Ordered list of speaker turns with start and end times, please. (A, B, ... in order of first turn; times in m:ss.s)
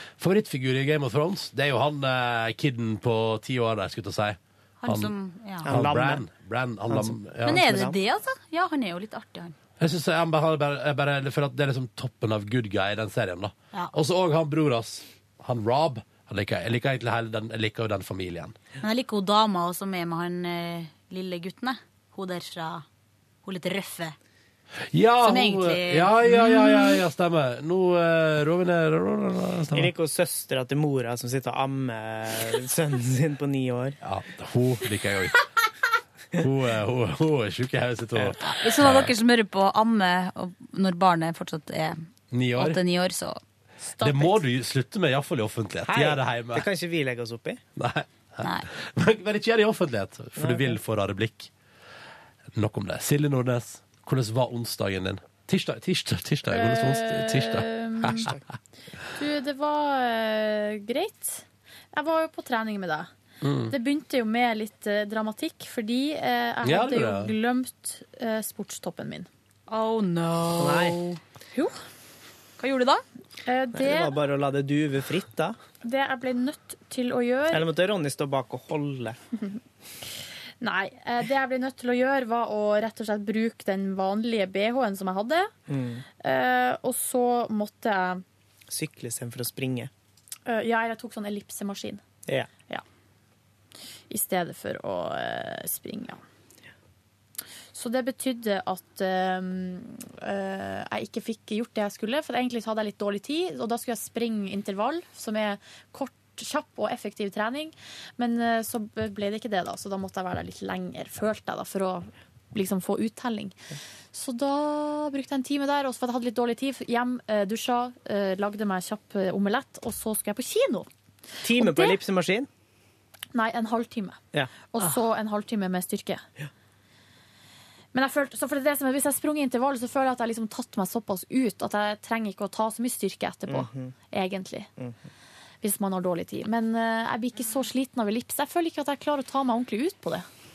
0:00.2-0:05.1 A
0:04.8-0:05.7 B
0:05.7-0:06.3 C
0:05.7-0:07.6 A
0:06.9-0:08.0 C
0:07.4-0:09.6 B
0:09.8-0:18.6 A
0:18.8-0:22.8 B
0:23.4-0:24.2 B
0:24.9-0:29.9 A
0:25.2-0:27.0 B
0:29.7-0:34.0 C
0:34.0-0:35.5 A
0:36.4-0:39.1 A
0:38.4-0:42.0 B
0:42.3-0:42.8 A
0:42.6-0:43.4 B
0:44.0-0:44.3 D
0:44.0-0:46.7 A
0:45.9-0:47.6 C
0:47.8-0:51.5 A
0:48.4-0:48.7 B
0:50.4-0:50.8 C
0:52.6-0:58.4 A
0:56.5-0:58.3 D
0:59.2-1:03.1 D
1:03.4-1:03.7 A
1:03.7-1:09.3 D
1:06.6-1:07.3 A
1:09.7-1:11.2 B
1:10.6-1:11.0 C
1:12.6-1:13.0 B
1:13.4-1:14.1 D
1:13.7-1:15.6 C
1:15.8-1:17.7 D
1:17.5-1:19.2 C
1:20.6-1:25.5 D
1:25.7-1:26.0 C
1:26.2-1:28.2 D
1:28.7-1:29.9 C
1:30.5-1:32.0 D
1:34.1-1:36.2 D
1:37.7-1:53.6 D
1:54.1-2:00.9 D
2:01.4-2:02.5 C
2:01.6-2:02.0 D
2:03.3-2:06.2 D
2:07.9-2:14.7 D
2:13.5-2:13.9 C
2:15.6-2:20.3 D